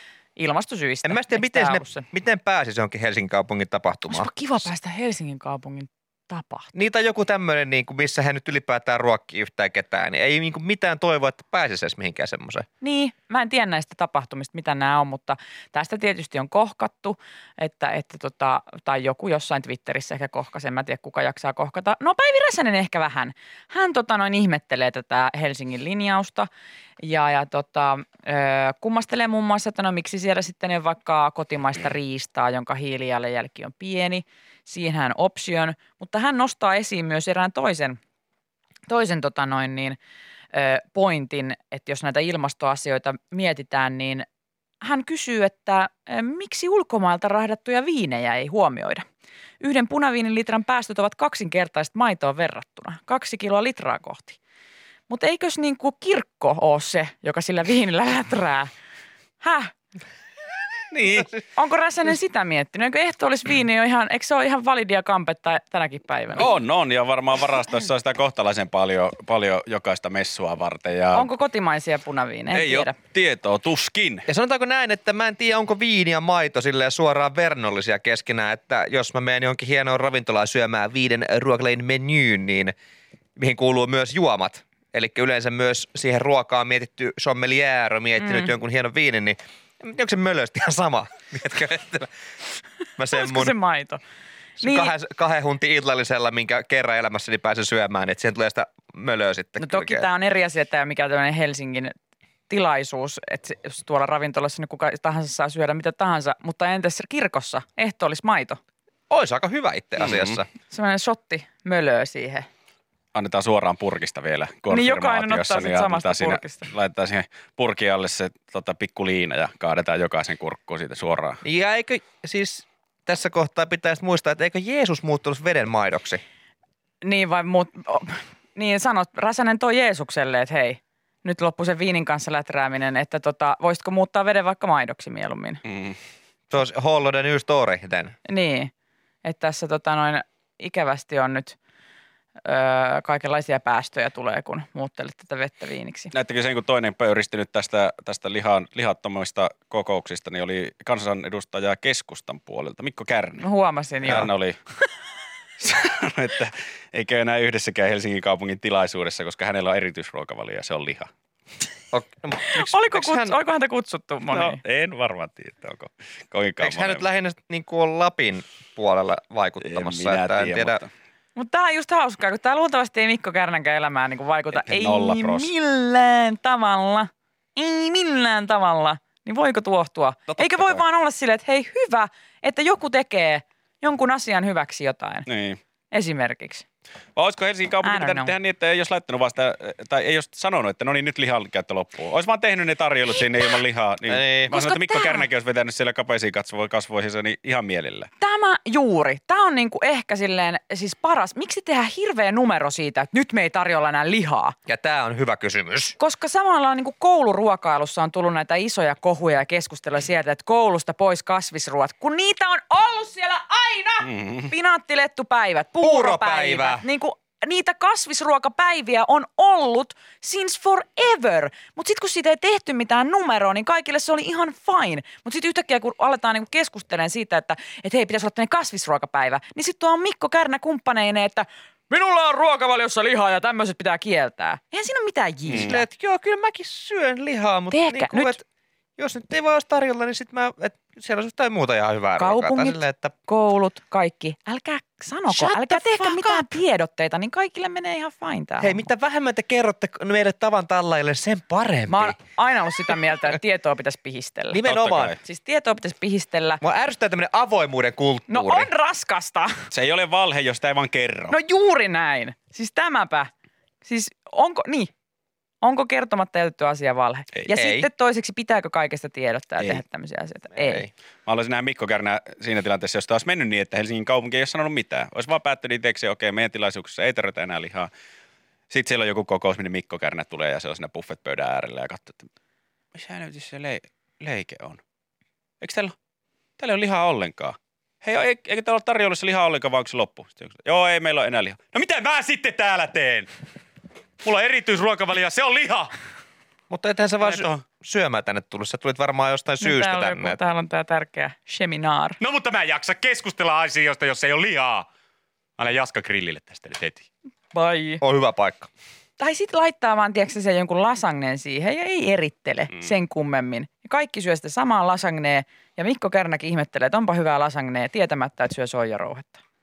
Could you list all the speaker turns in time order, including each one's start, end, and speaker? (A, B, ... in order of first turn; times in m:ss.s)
0:00.4-0:02.0 A
0:01.0-0:04.3 B
0:04.1-0:06.7 A
0:06.7-0:12.7 B
0:12.8-0:26.5 A
0:27.0-0:38.0 A
0:38.9-0:40.0 A
0:40.5-0:44.2 A
0:44.8-0:49.0 A
0:49.6-0:54.4 A
0:55.1-0:58.7 A
0:59.4-0:59.7 A
1:00.9-1:01.3 C
1:01.5-1:06.5 A
1:06.3-1:11.3 C
1:11.1-1:12.9 A
1:12.5-1:14.3 C
1:14.3-1:22.7 B
1:23.4-1:32.1 B
1:28.2-1:28.5 A
1:33.0-1:33.6 B
1:33.1-1:34.0 A
1:34.6-1:34.9 A
1:34.6-1:40.1 B
1:39.6-1:41.9 A
1:42.5-1:48.6 A
1:49.1-1:50.5 B
1:50.0-1:50.4 C
1:50.7-1:52.5 A
1:53.1-2:01.4 C
1:54.7-1:56.7 A
2:01.4-2:06.2 B
2:07.0-2:15.6 A
2:15.6-2:16.0 C
2:16.5-2:18.2 B
2:18.3-2:18.7 A
2:19.2-2:21.6 A
2:22.4-2:26.1 A
2:26.1-2:33.4 C
2:33.4-2:34.3 A
2:34.0-2:34.6 C
2:35.6-2:41.1 C
2:41.9-2:43.4 B
2:42.5-2:44.6 A
2:44.3-2:47.0 C
2:46.6-2:50.8 B
2:49.6-2:50.9 C
2:51.4-3:05.3 A
2:54.5-2:55.5 C
3:00.3-3:00.8 B
3:05.2-3:05.6 C
3:05.9-3:06.6 A
3:07.1-3:18.1 C
3:07.8-3:08.3 A
3:14.1-3:14.5 B
3:14.5-3:15.3 A
3:18.2-3:24.6 A
3:24.7-3:26.0 B
3:26.0-3:55.8 A
3:34.0-3:34.5 C
3:35.8-3:36.8 B
3:55.5-3:55.8 C
3:55.5-3:58.4 B
3:57.7-3:58.4 A
3:59.0-4:03.1 B
4:02.2-4:08.8 A
4:05.3-4:06.5 B
4:08.6-4:12.2 B
4:11.9-4:14.6 A
4:14.5-4:15.2 B
4:14.6-4:15.2 C
4:15.2-4:16.6 A
4:16.6-4:18.7 B
4:18.3-4:19.6 A
4:19.7-4:21.3 C
4:21.3-4:23.3 A
4:23.8-4:24.9 A
4:25.6-4:30.9 A
4:27.5-4:27.9 B
4:30.6-4:30.9 B
4:31.2-4:37.9 C
4:38.7-4:42.3 C
4:42.9-4:44.8 C
4:45.6-4:45.9 C
4:46.6-4:53.3 C
4:54.2-4:55.9 C
4:56.7-5:00.4 B
4:57.2-4:57.6 C
4:59.6-5:02.2 A
5:02.2-5:04.9 C
5:05.6-5:07.1 C
5:07.5-5:08.0 A
5:08.0-5:08.7 B
5:09.2-5:19.4 A